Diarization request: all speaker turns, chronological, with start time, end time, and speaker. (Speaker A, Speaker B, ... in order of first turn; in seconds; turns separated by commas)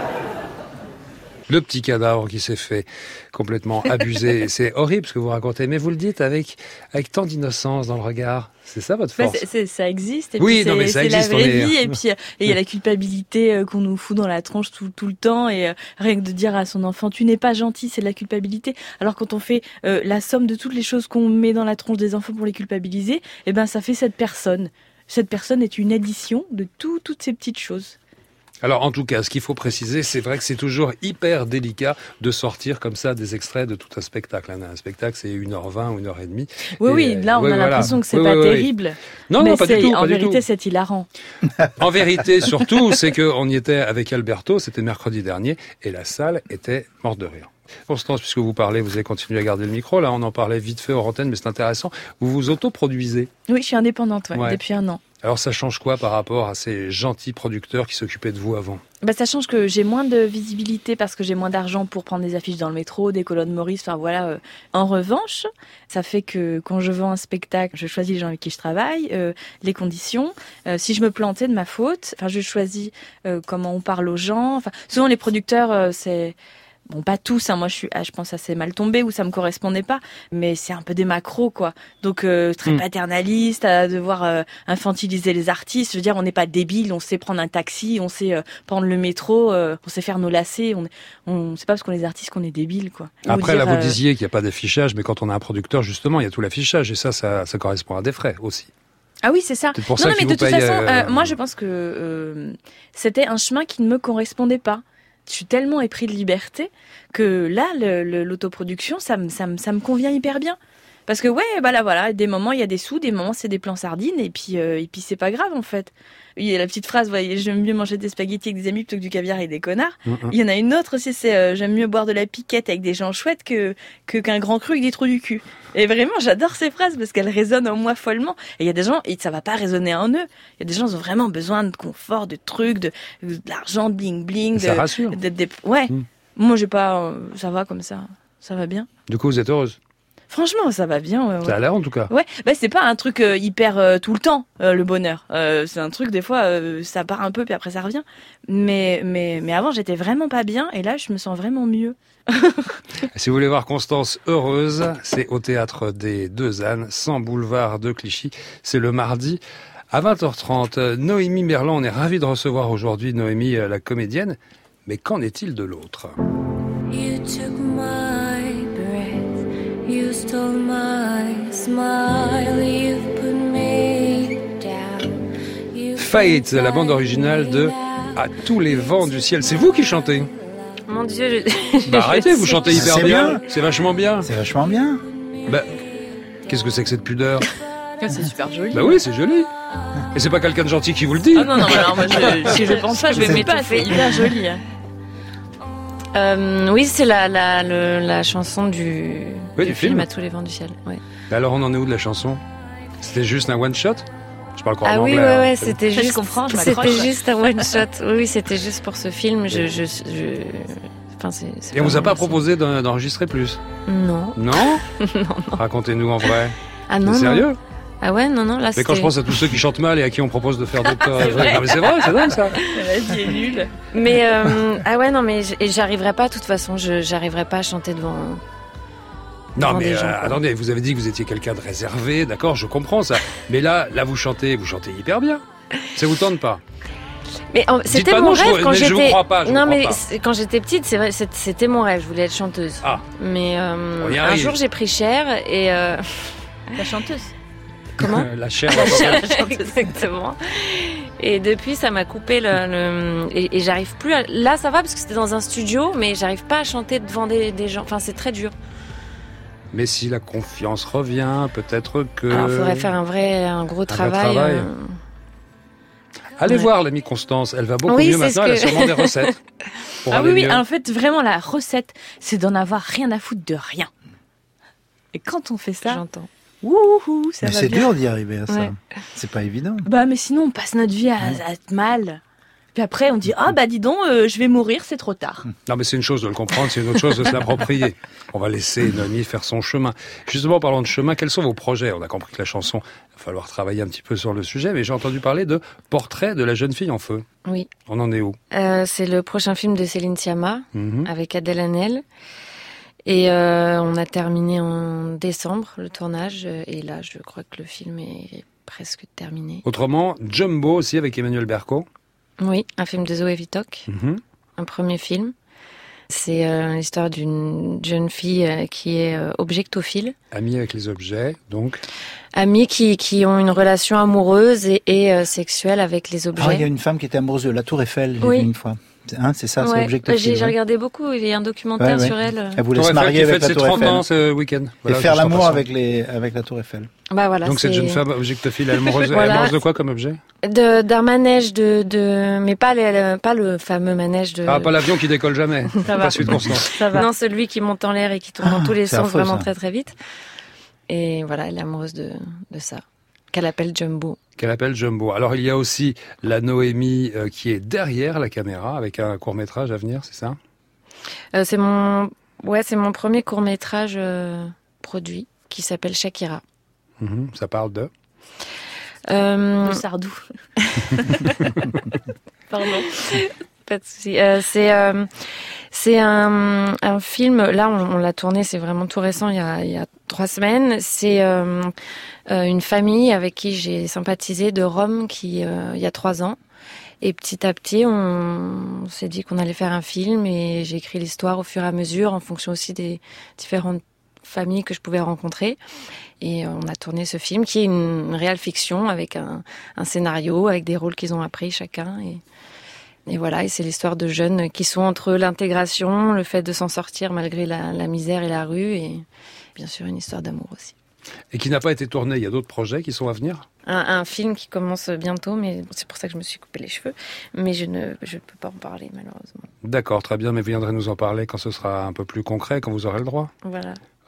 Speaker A: 1.5-9.4, Speaker B: 9.2-27.9, Speaker A: 10.4-11.9, Speaker A: 28.6-38.7, Speaker B: 36.8-41.1, Speaker A: 39.3-40.4, Speaker A: 41.8-53.3, Speaker B: 53.5-55.0, Speaker A: 54.3-54.6, Speaker A: 55.2-58.8, Speaker B: 59.0-76.4, Speaker B: 76.9-94.0, Speaker A: 93.2-98.7, Speaker B: 99.2-138.9, Speaker A: 99.7-101.4, Speaker A: 120.1-120.3, Speaker A: 134.6-135.2, Speaker A: 139.1-139.8, Speaker B: 140.3-152.7, Speaker A: 141.4-142.1, Speaker A: 153.1-159.4, Speaker A: 159.9-166.1, Speaker C: 166.9-175.1, Speaker C: 175.7-178.1, Speaker A: 176.0-180.3, Speaker D: 180.9-183.3, Speaker A: 181.9-184.3, Speaker E: 182.7-183.4, Speaker E: 184.2-185.0, Speaker A: 185.5-185.7, Speaker A: 186.5-187.5, Speaker B: 188.0-189.0, Speaker A: 188.7-189.5, Speaker A: 190.1-192.6, Speaker B: 191.3-194.6, Speaker D: 192.5-194.0, Speaker A: 193.2-193.4, Speaker D: 196.1-201.0, Speaker A: 199.6-200.1, Speaker A: 201.3-202.4, Speaker A: 203.0-205.8, Speaker D: 204.8-212.4, Speaker B: 205.9-207.1, Speaker A: 211.7-213.6, Speaker D: 213.9-215.6, Speaker A: 214.4-214.8, Speaker A: 215.5-217.6, Speaker D: 216.9-217.5, Speaker D: 218.0-219.1, Speaker A: 218.8-222.6, Speaker B: 221.1-223.7, Speaker D: 223.9-228.4, Speaker A: 229.6-236.6, Speaker D: 229.6-230.4, Speaker D: 237.5-246.4, Speaker A: 237.9-240.0, Speaker A: 244.0-244.6, Speaker B: 246.7-247.3, Speaker D: 248.0-258.5, Speaker A: 248.0-249.2, Speaker B: 248.7-249.7, Speaker A: 259.7-262.9, Speaker D: 262.3-265.0, Speaker A: 263.9-264.7, Speaker A: 266.4-269.4, Speaker D: 267.9-269.2, Speaker A: 270.0-270.6, Speaker B: 270.1-273.9, Speaker B: 275.1-276.0, Speaker D: 275.9-276.3, Speaker B: 276.6-277.9, Speaker E: 277.4-279.9, Speaker B: 279.9-282.2, Speaker B: 282.7-285.4, Speaker A: 285.7-297.2, Speaker A: 297.9-298.4, Speaker D: 298.5-302.0, Speaker A: 300.7-301.1, Speaker D: 303.1-309.6, Speaker A: 309.6-311.9, Speaker D: 312.4-313.9, Speaker A: 313.9-314.2, Speaker D: 314.6-315.3, Speaker D: 316.1-320.1, Speaker A: 320.3-321.8, Speaker D: 322.4-326.7, Speaker E: 326.4-330.6, Speaker D: 328.2-328.5, Speaker D: 329.6-332.6, Speaker E: 331.8-334.0, Speaker A: 332.7-335.6, Speaker E: 334.9-336.9, Speaker D: 337.1-338.0, Speaker A: 337.4-340.2, Speaker D: 338.9-339.6, Speaker D: 340.4-344.7, Speaker A: 344.5-346.8, Speaker D: 345.8-349.9, Speaker B: 346.7-347.1, Speaker E: 348.4-349.5, Speaker D: 350.9-354.2, Speaker A: 354.4-360.4, Speaker D: 361.3-366.4, Speaker A: 367.0-367.9, Speaker D: 369.1-369.8, Speaker B: 369.6-371.5, Speaker B: 372.5-373.2, Speaker D: 372.7-381.7, Speaker D: 382.3-386.4, Speaker D: 387.0-395.6, Speaker D: 396.2-402.2, Speaker D: 403.1-409.0, Speaker D: 409.6-410.8, Speaker A: 411.3-413.4, Speaker D: 413.7-419.4, Speaker A: 419.6-423.3, Speaker D: 423.4-423.8